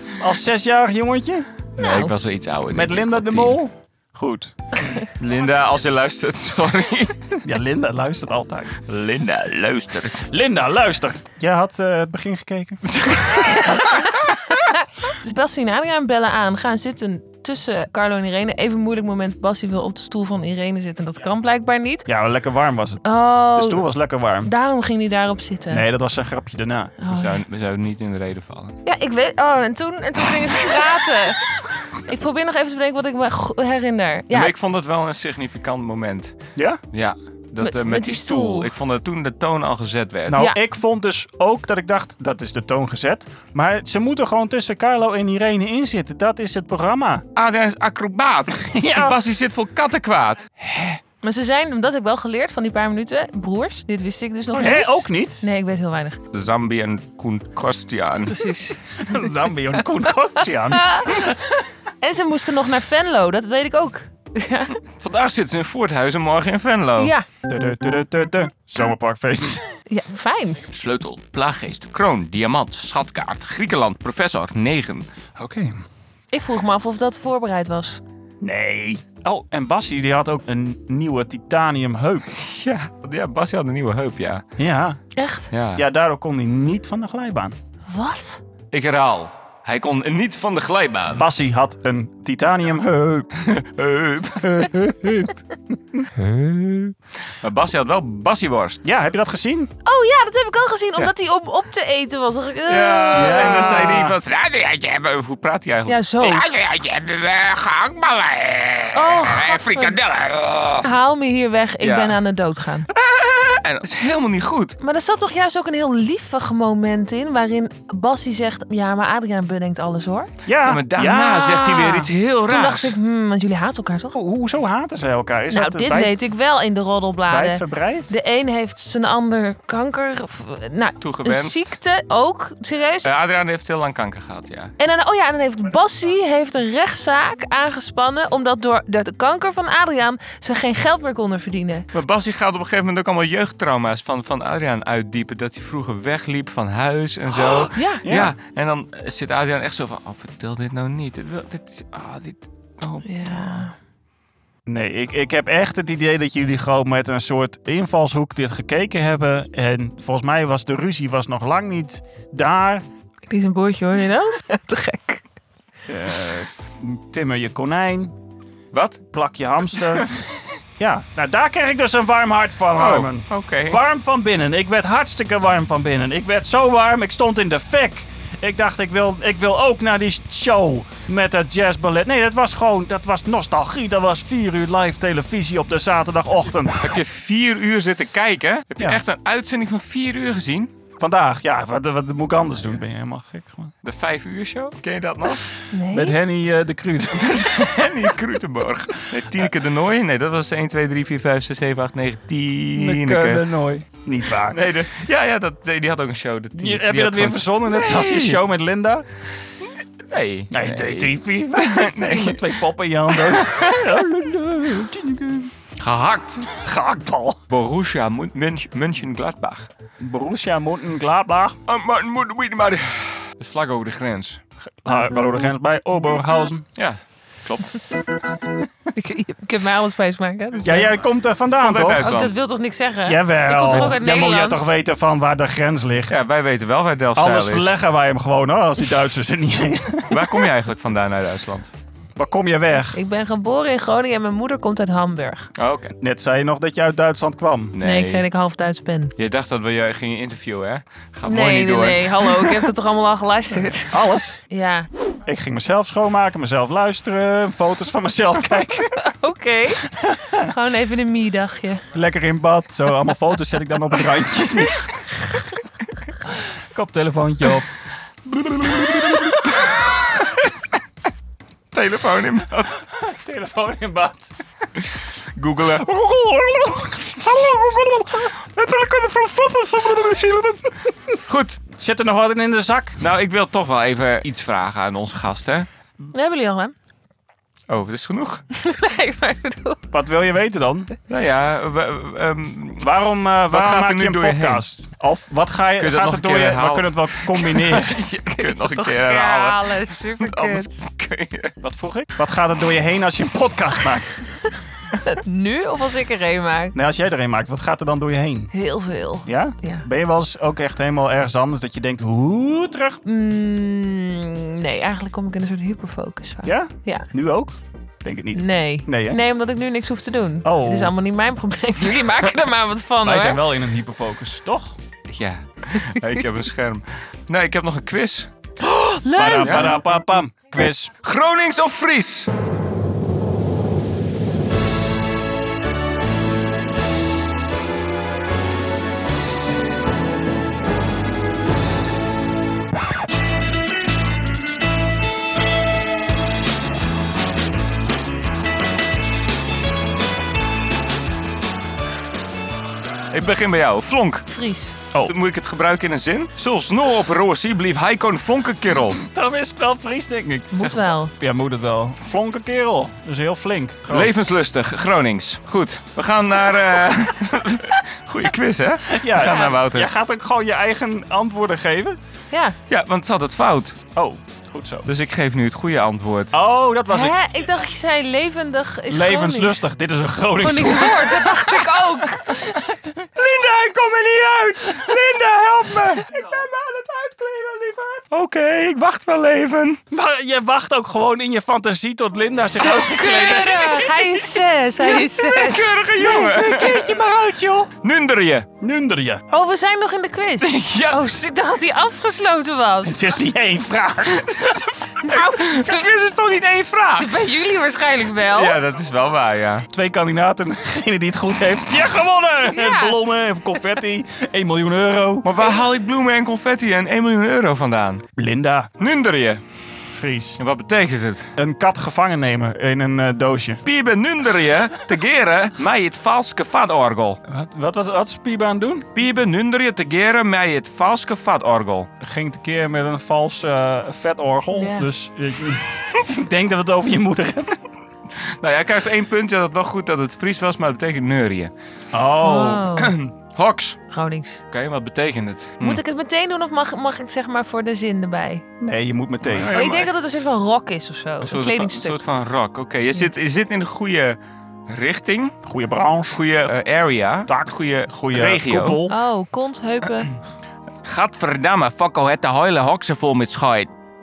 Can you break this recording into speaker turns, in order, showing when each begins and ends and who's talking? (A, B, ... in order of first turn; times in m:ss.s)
0:00.2-0:01.5 A
0:01.8-0:02.1 B
0:01.8-0:03.6 C
0:02.7-0:04.9 A
0:05.0-0:07.4 C
0:07.4-0:08.8 A
0:08.8-0:10.3 C
0:10.3-0:13.0 A
0:12.9-0:13.8 C
0:13.3-0:22.1 B
0:22.1-0:23.0 A
0:23.0-0:23.9 B
0:23.6-0:24.5 A
0:24.4-0:25.8 B
0:25.7-0:27.0 A
0:27.0-0:27.4 B
0:27.1-0:28.8 C
0:28.8-0:34.5 B
0:34.3-0:36.4 C
0:36.9-0:40.4 C
0:37.6-0:38.7 B
0:40.3-0:47.2 A
0:40.3-0:40.6 B
0:47.4-0:51.0 C
0:48.6-0:49.2 A
0:51.2-0:56.2 B
0:54.5-0:55.5 A
0:56.3-0:58.4 C
0:58.3-0:59.3 B
0:58.9-1:01.7 A
1:00.7-1:01.2 B
1:02.0-1:04.8 B
1:04.8-1:07.1 C
1:07.0-1:07.3 B
1:07.5-1:09.7 A
1:09.9-1:10.6 B
1:10.7-1:15.1 C
1:15.4-1:15.8 A
1:16.3-1:18.0 B
1:18.4-1:22.4 A
1:22.4-1:24.4 C
1:24.6-1:25.0 A
1:25.2-1:25.5 B
1:25.5-1:25.9 C
1:25.8-1:27.6 A
1:27.9-1:28.4 B
1:28.7-1:31.2 C
1:31.1-1:33.3 A
1:33.4-1:34.7 C
1:34.4-1:35.4 A
1:36.1-1:38.8 C
1:38.8-1:39.7 A
1:39.8-1:44.1 B
1:42.7-1:50.9 C
1:43.1-1:44.2 A
1:45.9-1:46.5 B
1:48.9-1:50.0 B
1:50.8-1:52.9 B
1:51.8-1:52.2 C
1:52.9-1:54.8 C
1:54.8-2:00.3 B
2:00.5-2:02.0 A
2:00.7-2:03.0 C
2:02.0-2:04.2 B
2:04.1-2:06.2 A
2:05.5-2:13.1 B
2:07.3-2:08.1 A
2:11.0-2:11.7 C
2:13.0-2:14.7 C
2:14.8-2:21.9 B
2:21.9-2:33.6 C
2:27.7-2:28.0 B
2:28.0-2:28.3 A
2:33.0-2:33.8 B
2:34.7-2:42.8 A
2:43.3-2:45.2 B
2:45.9-2:48.1 A
2:48.7-2:49.0 C
2:49.1-3:07.0 A
2:52.8-2:53.8 C
3:06.8-3:10.7 C
3:11.0-3:13.7 A
3:13.8-3:15.5 C
3:15.7-3:16.2 B
3:15.9-3:17.9 A
3:17.2-3:23.4 C
3:22.8-3:24.6 A
3:24.4-3:28.4 C
3:26.6-3:29.1 A
3:30.1-3:32.5 C
3:30.5-3:35.5 A
3:33.1-3:33.9 C
3:35.8-3:36.6 C
3:36.5-3:37.4 A
3:37.5-3:39.7 C
3:40.0-3:41.6 A
3:41.7-3:44.4 C
3:44.8-3:46.7 A
3:46.8-3:47.7 C
3:48.9-3:51.0 B
3:50.6-3:52.2 A
3:51.6-3:52.3 C
3:52.0-3:54.7 B
3:53.1-3:56.2 A
3:56.1-3:57.7 C
3:57.2-4:00.5 A
4:00.1-4:01.7 C
4:02.2-4:03.0 A
4:02.9-4:05.5 B
4:05.6-4:05.9 C
4:06.0-4:07.8 A
4:07.7-4:08.2 C
4:07.8-4:09.1 B
4:09.2-4:12.7 C
4:11.2-4:14.9 B
4:13.9-4:14.4 A
4:15.3-4:19.1 A
4:19.0-4:21.8 B
4:19.9-4:20.5 A
4:21.9-4:25.0 A
4:26.3-4:27.7 A
4:28.3-4:30.5 C
4:28.8-4:29.4 A
4:31.7-4:32.8 C
4:32.9-4:34.3 A
4:35.4-4:35.9 C
4:35.8-4:38.4 A
4:38.6-4:40.6 C
4:39.7-4:40.2 A
4:41.3-4:41.6 C
4:41.7-4:43.0 A
4:43.0-4:45.7 C
4:46.1-4:46.7 B
4:47.7-4:48.4 C
4:48.5-4:49.8 B
4:49.9-4:50.9 A
4:51.1-4:52.9 C
4:52.8-4:58.0 A
4:53.5-4:54.6 C
4:55.8-5:01.5 C
4:58.1-5:00.7 B
5:01.6-5:04.1 A
5:05.0-5:06.8 B
5:06.8-5:08.5 A
5:08.5-5:09.9 B
5:09.2-5:13.0 A
5:13.0-5:17.1 B
5:16.4-5:19.2 A
5:18.3-5:23.4 B
5:20.4-5:20.9 A
5:23.0-5:24.8 A
5:25.1-5:28.3 C
5:28.6-5:29.8 B
5:29.2-5:31.0 A
5:29.4-5:29.8 C
5:31.0-5:32.3 C
5:53.1-5:54.3 C
5:54.3-5:54.8 B
5:55.1-5:59.0 C
5:58.9-6:04.1 A
6:00.5-6:01.1 B
6:03.9-6:09.9 C
6:08.9-6:12.0 A
6:09.2-6:09.6 B
6:12.7-6:13.8 C
6:14.0-6:14.9 A
6:14.9-6:16.4 C
6:16.3-6:17.2 A
6:16.9-6:19.7 B
6:18.9-6:21.5 A
6:20.4-6:22.4 B
6:22.2-6:23.0 A
6:23.2-6:27.2 C
6:26.0-6:26.5 A
6:27.1-6:28.0 A
6:28.1-6:29.8 C
6:29.9-6:33.9 A
6:32.5-6:35.8 B
6:32.6-6:33.9 C
6:34.9-6:37.0 C
6:36.0-6:37.7 A
6:37.8-6:38.5 C
6:38.6-6:39.2 A
6:39.3-6:43.0 B
6:40.4-6:41.1 C
6:42.8-6:44.6 A
6:44.3-6:47.2 C
6:45.0-6:45.9 B
6:47.0-6:48.6 B
6:48.2-6:49.7 C
6:49.7-6:55.4 A
6:52.5-6:53.0 B
6:55.2-6:58.0 C
6:58.2-6:58.7 A
6:58.8-6:59.4 C
6:59.9-7:00.4 A
7:00.4-7:01.3 C
7:01.4-7:03.6 A
7:03.6-7:07.2 C
7:07.3-7:08.9 A
7:09.0-7:11.9 C
7:12.0-7:17.7 A
7:14.5-7:14.9 B
7:18.2-7:21.5 C
7:21.9-7:22.7 A
7:22.2-7:23.0 B
7:22.7-7:23.8 C
7:23.9-7:24.4 B
7:24.5-7:25.8 C
7:25.6-7:28.4 B
7:28.6-7:29.5 A
7:29.2-7:29.9 C
7:29.5-7:32.0 B
7:31.2-7:35.4 C
7:35.4-7:36.2 A
7:36.1-7:38.8 C
7:37.3-7:39.0 A
7:38.9-7:40.1 B
7:40.8-7:43.7 C